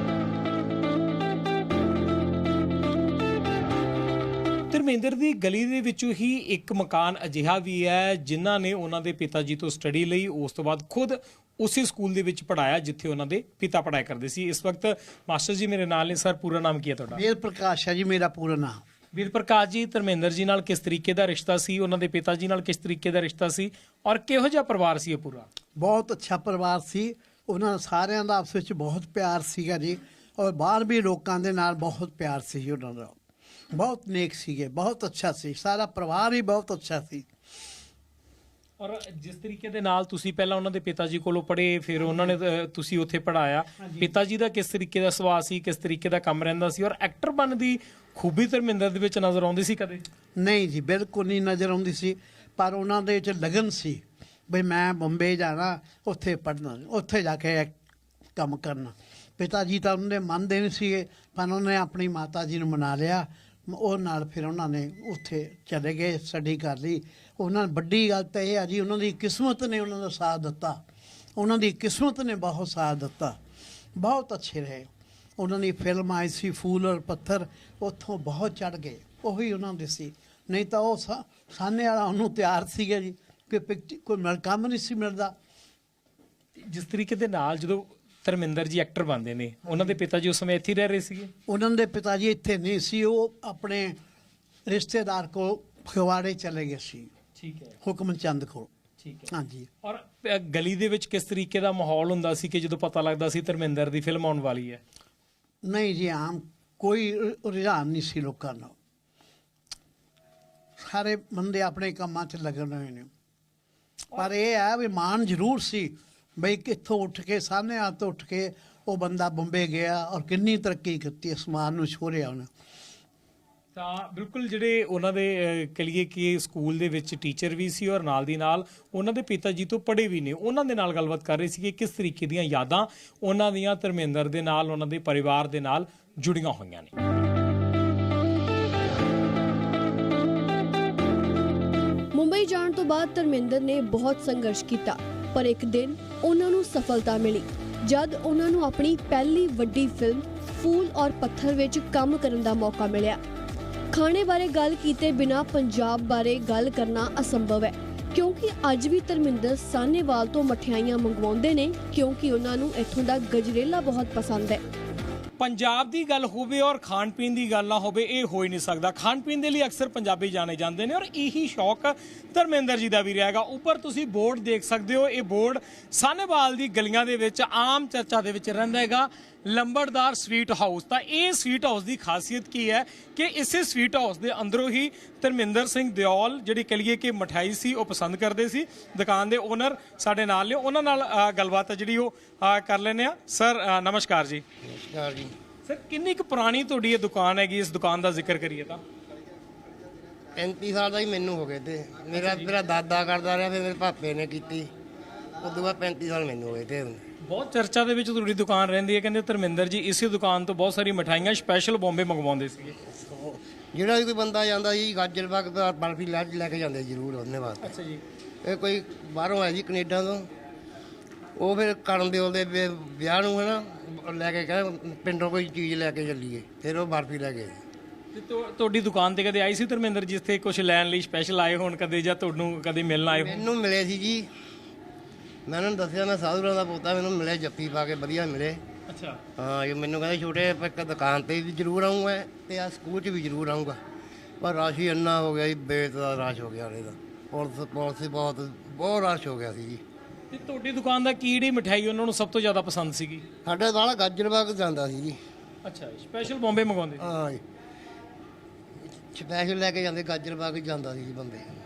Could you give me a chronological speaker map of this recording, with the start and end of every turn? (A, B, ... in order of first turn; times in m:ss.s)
0:04.7-0:17.2 A
0:17.1-0:18.8 B
0:19.1-0:25.5 A
0:25.8-0:33.2 B
0:33.7-0:37.3 B
0:38.8-0:50.0 A
0:42.0-0:42.4 B
0:43.8-0:44.1 B
0:50.4-0:57.8 B
0:58.4-1:10.8 B
1:11.4-1:13.4 B
1:14.0-1:25.3 B
1:26.6-1:31.3 A
1:31.5-1:34.0 B
1:34.7-1:37.1 B
1:37.4-1:37.8 A
1:37.8-1:38.7 B
1:39.0-1:39.3 A
1:39.3-1:39.7 B
1:39.8-1:44.8 A
1:45.6-1:48.8 B
1:50.8-1:53.1 B
1:54.1-2:02.5 B
2:03.8-2:16.9 A
2:22.1-2:33.2 C
2:33.9-2:44.6 C
2:45.4-3:14.4 A
3:14.6-3:15.3 D
3:15.7-3:18.8 A
3:20.4-3:24.7 D
3:22.2-3:22.5 A
3:25.4-3:27.0 D
3:27.2-3:32.8 A
3:32.8-3:37.7 D
3:37.6-3:38.0 A
3:38.4-3:40.3 D
3:41.4-3:47.6 D
3:48.1-3:53.4 A
3:53.1-3:54.3 D
3:55.5-3:58.6 D
3:58.9-3:59.2 A
3:59.4-4:03.8 D
4:04.4-4:09.8 D
4:10.3-4:13.2 A
4:13.4-4:15.2 D
4:15.6-4:17.1 A
4:17.0-4:17.4 D
4:19.0-4:21.5 D